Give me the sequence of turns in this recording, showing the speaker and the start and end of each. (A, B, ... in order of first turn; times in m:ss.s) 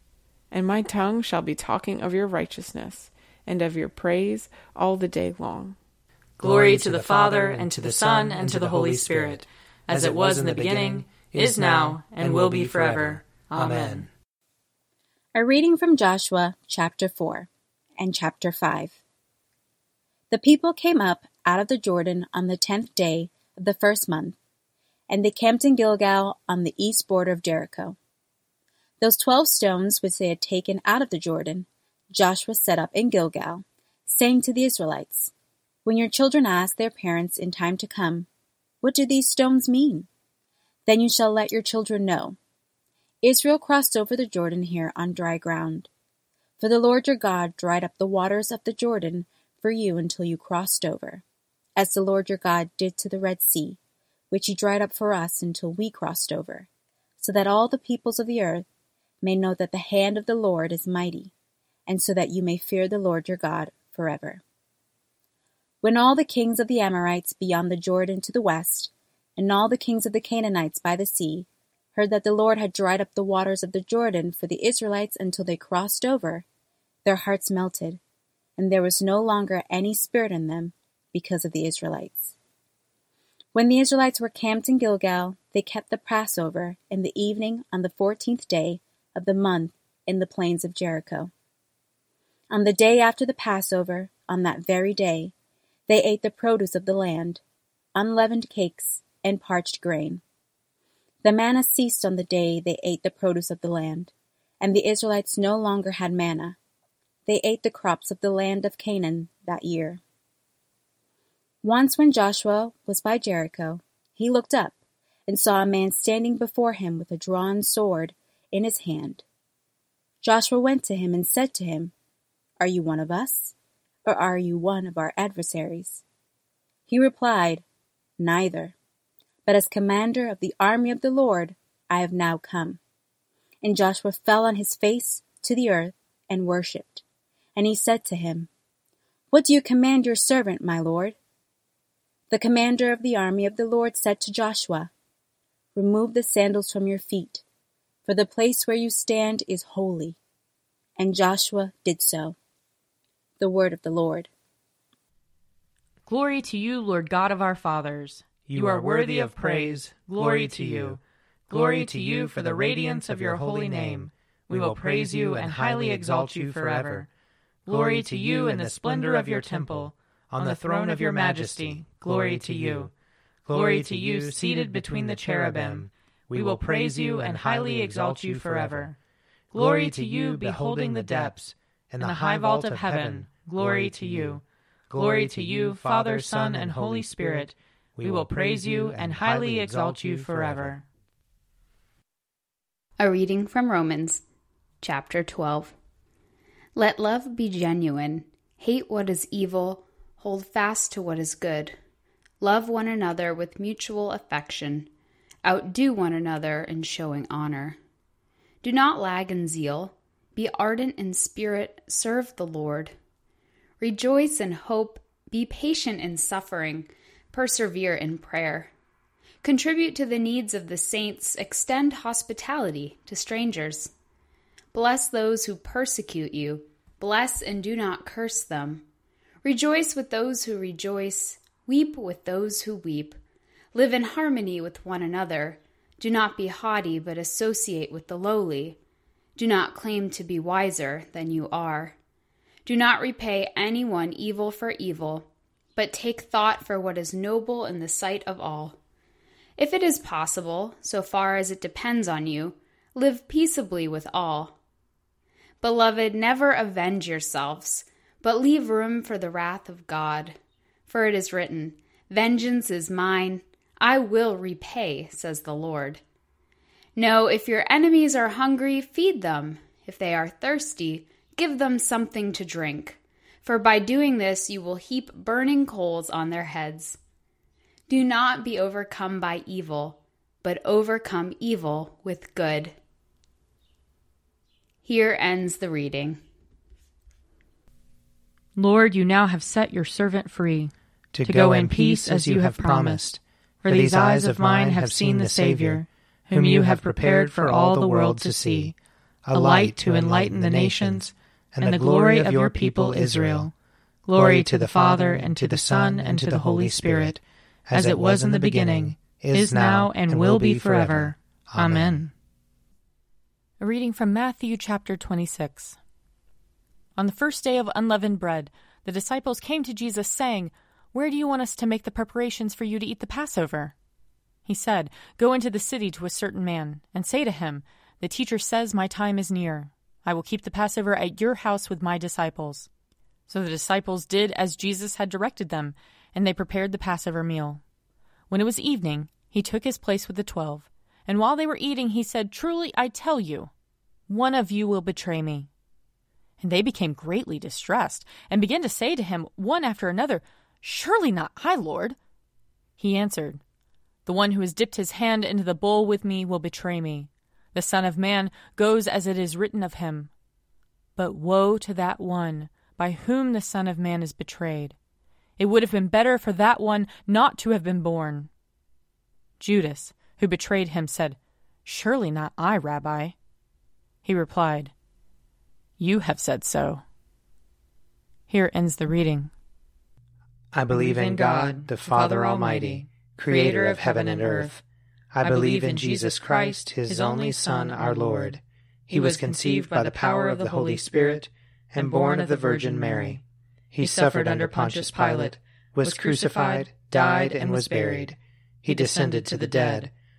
0:00.5-0:05.8 A
0:06.4-0:14.1 B
0:06.4-0:14.1 C
0:15.4-0:19.0 D
0:20.3-0:24.4 D
0:25.1-0:28.0 D
0:29.0-0:35.3 D
0:35.8-0:38.3 D
0:38.8-0:40.1 D
0:40.9-0:42.4 D
0:43.2-0:45.9 D
0:46.6-0:51.2 D
0:51.8-0:53.8 D
0:54.3-0:56.7 D
0:57.2-0:58.6 D
0:59.2-1:01.3 D
1:01.9-1:04.4 D
1:05.8-1:16.5 D
1:17.0-1:18.0 D
1:18.6-1:22.4 D
1:23.5-1:31.3 D
1:32.5-1:35.3 D
1:35.9-1:37.4 D
1:38.0-1:40.2 D
1:41.2-1:46.6 D
1:47.3-1:50.0 D
1:51.6-1:54.8 D
1:55.3-1:59.2 D
2:00.2-2:01.9 D
2:02.6-2:03.5 D
2:04.0-2:06.0 D
2:06.9-2:07.6 D
2:08.2-2:08.8 D
2:09.5-2:12.8 D
2:13.6-2:17.0 D
2:17.6-2:18.5 D
2:19.3-2:21.2 D
2:22.3-2:24.9 D
2:25.8-2:27.4 D
2:28.1-2:30.2 D
2:31.0-2:32.4 D
2:33.4-2:34.3 D
2:36.1-2:41.0 B
2:38.5-2:47.1 C
2:41.5-2:47.1 B
2:47.7-2:52.9 B
2:47.7-2:52.9 C
2:53.5-2:58.9 C
2:53.5-2:59.0 B
2:59.5-3:10.8 C
2:59.5-3:01.4 B
3:02.0-3:04.4 B
3:04.9-3:10.8 B
3:13.0-3:14.2 E
3:14.8-3:15.7 E
3:16.8-3:21.8 E
3:22.4-3:24.9 E
3:25.4-3:27.8 E
3:28.6-3:32.9 E
3:33.8-3:38.7 E
3:39.4-3:43.9 E
3:44.7-3:48.9 E
3:49.4-3:53.2 E
3:53.7-3:58.8 E
3:59.4-4:02.0 E
4:02.7-4:08.8 E
4:09.6-4:14.6 E
4:15.6-4:20.4 E
4:20.9-4:26.0 E
4:27.0-4:37.0 E
4:37.9-4:42.8 E
4:44.8-4:46.2 E
4:48.6-4:50.7 B
4:51.1-5:03.5 C
4:51.2-4:53.0 B
4:53.6-4:58.7 B
4:59.3-5:03.5 B
5:04.0-5:07.2 B
5:04.1-5:12.1 C
5:07.7-5:12.1 B
5:13.6-5:15.8 B
5:17.0-5:23.7 B
5:24.5-5:32.7 B
5:33.3-5:37.6 B
5:38.3-5:43.5 B
5:44.1-5:45.5 B
5:46.4-5:52.0 B
5:52.8-5:53.4 B
5:54.1-6:00.1 B
6:01.0-6:04.8 B
6:05.4-6:08.3 B
6:09.4-6:13.2 B
6:14.0-6:14.7 B
6:15.8-6:16.8 B
6:18.3-6:19.3 B
6:20.5-6:24.6 C
6:20.7-6:24.6 B
6:25.1-6:39.9 C
6:25.2-6:28.4 B
6:28.9-6:31.0 B
6:31.8-6:33.2 B
6:33.8-6:38.1 B
6:38.7-6:39.9 B